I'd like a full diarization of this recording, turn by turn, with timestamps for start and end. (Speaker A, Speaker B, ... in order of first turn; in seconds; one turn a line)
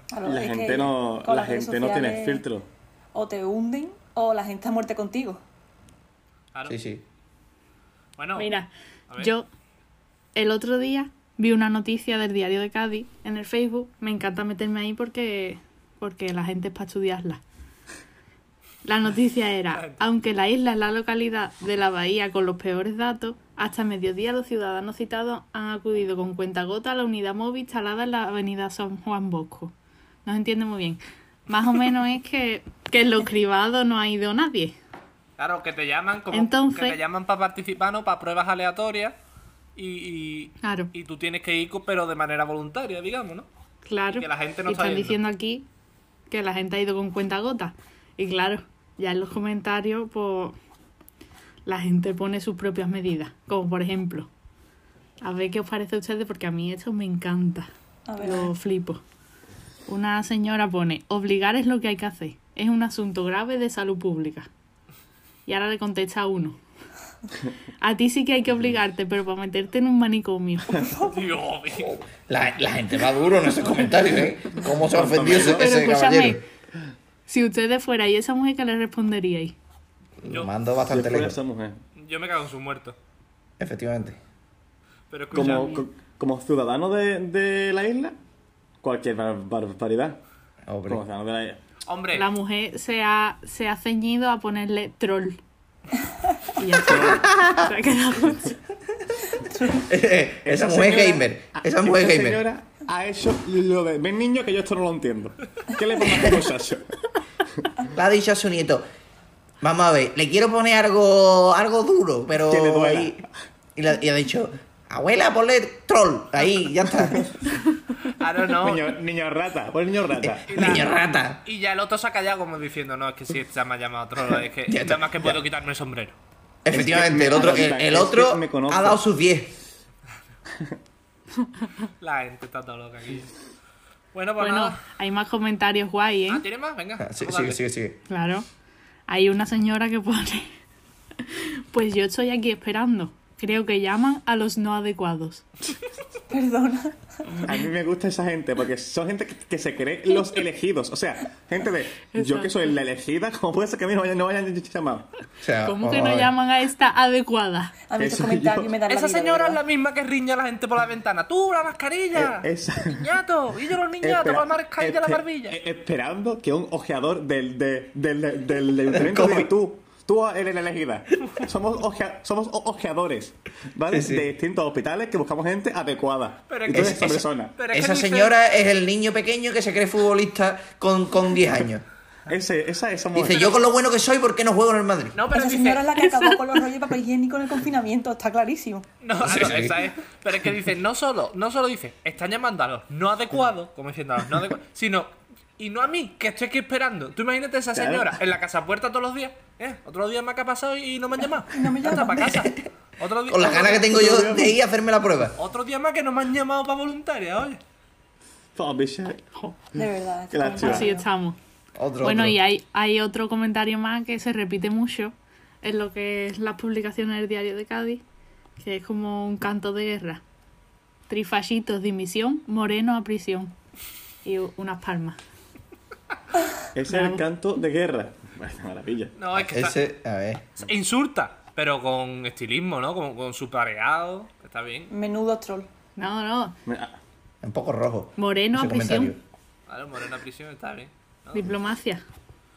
Speaker A: 0.1-2.4
Speaker B: 0.2-2.7
Speaker A: 3.1-5.4
Speaker C: 6.7-7.0
Speaker D: 8.2-8.5
Speaker E: 8.4-9.5
Speaker E: 10.3-17.4
Speaker E: 18.8-29.7
Speaker D: 19.7-20.1
Speaker E: 30.2-34.8
Speaker D: 35.4-39.2
Speaker E: 36.3-37.0
Speaker D: 39.8-43.5
Speaker E: 40.6-40.9
Speaker E: 43.9-45.7
Speaker D: 44.1-45.2
Speaker E: 46.3-50.6
Speaker E: 51.6-54.3
Speaker E: 55.2-57.7
Speaker A: 58.1-58.5
Speaker E: 58.2-59.0
Speaker E: 59.9-64.5
Speaker E: 65.5-66.6
Speaker E: 67.8-70.9
Speaker D: 71.0-71.9
Speaker C: 71.8-76.4
Speaker B: 74.9-75.7
Speaker E: 75.4-76.5
Speaker E: 77.3-79.5
Speaker C: 80.2-81.4
Speaker B: 80.9-81.8
Speaker D: 82.0-83.0
Speaker C: 83.6-84.2
Speaker D: 85.1-85.7
Speaker B: 85.3-88.2
Speaker E: 85.3-85.8
Speaker B: 88.8-90.2
Speaker C: 90.7-91.0
Speaker B: 90.9-91.6
Speaker D: 91.9-92.3
Speaker E: 92.1-95.4
Speaker E: 96.6-98.6
Speaker B: 96.8-97.2
Speaker C: 97.0-97.7
Speaker C: 99.7-102.5
Speaker B: 100.4-106.9
Speaker C: 107.9-108.8
Speaker C: 109.6-113.2
Speaker B: 112.5-113.2
Speaker C: 113.8-117.6
Speaker D: 118.2-119.0
Speaker B: 118.5-120.5
Speaker C: 120.2-121.4
Speaker D: 120.5-126.2
Speaker C: 124.7-125.4
Speaker C: 126.7-129.5
Speaker B: 126.7-129.0
Speaker D: 132.0-133.3
Speaker D: 134.1-134.8
Speaker E: 134.4-136.4
Speaker D: 136.3-137.6
Speaker C: 137.0-138.0
Speaker E: 138.1-138.5
Speaker E: 139.1-140.5
Speaker E: 141.2-145.5
Speaker A: 146.3-147.4
Speaker B: 147.4-155.1
Speaker E: 152.2-152.6
Speaker C: 155.4-156.3
Speaker E: 155.7-157.9
Speaker A: 157.9-159.6
Speaker B: 158.0-158.7
Speaker D: 158.9-165.6
Speaker B: 162.2-163.1
Speaker B: 164.0-177.5
Speaker C: 168.9-169.5
Speaker C: 173.9-174.3
Speaker D: 176.5-178.3
Speaker C: 176.7-181.8
Speaker B: 182.3-183.5
Speaker C: 183.1-185.2
Speaker D: 183.3-183.6
Speaker D: 185.2-185.9
Speaker A: 185.3-188.8
Speaker E: 185.9-186.6
Speaker D: 189.0-203.8
Speaker C: 189.2-189.9
Speaker B: 197.7-198.2
Speaker A: 201.5-202.5
Speaker C: 203.3-205.4
Speaker B: 203.6-204.6
Speaker D: 205.4-207.6
Speaker B: 208.6-209.2
Speaker A: 209.7-211.1
Speaker B: 210.3-210.9
Speaker E: 210.6-211.4
Speaker C: 211.8-212.4
Speaker E: 212.0-218.0
Speaker E: 218.6-220.2
Speaker E: 221.1-223.5
Speaker E: 224.2-225.2
Speaker B: 226.7-229.1
Speaker E: 226.9-227.2
Speaker D: 229.2-229.8
Speaker C: 229.3-230.5
Speaker D: 230.6-234.9
Speaker A: 234.9-235.7
Speaker E: 236.0-236.6
Speaker B: 236.7-237.0
Speaker C: 237.4-239.2
Speaker E: 238.2-239.1
Speaker D: 239.7-241.5
Speaker E: 241.3-242.0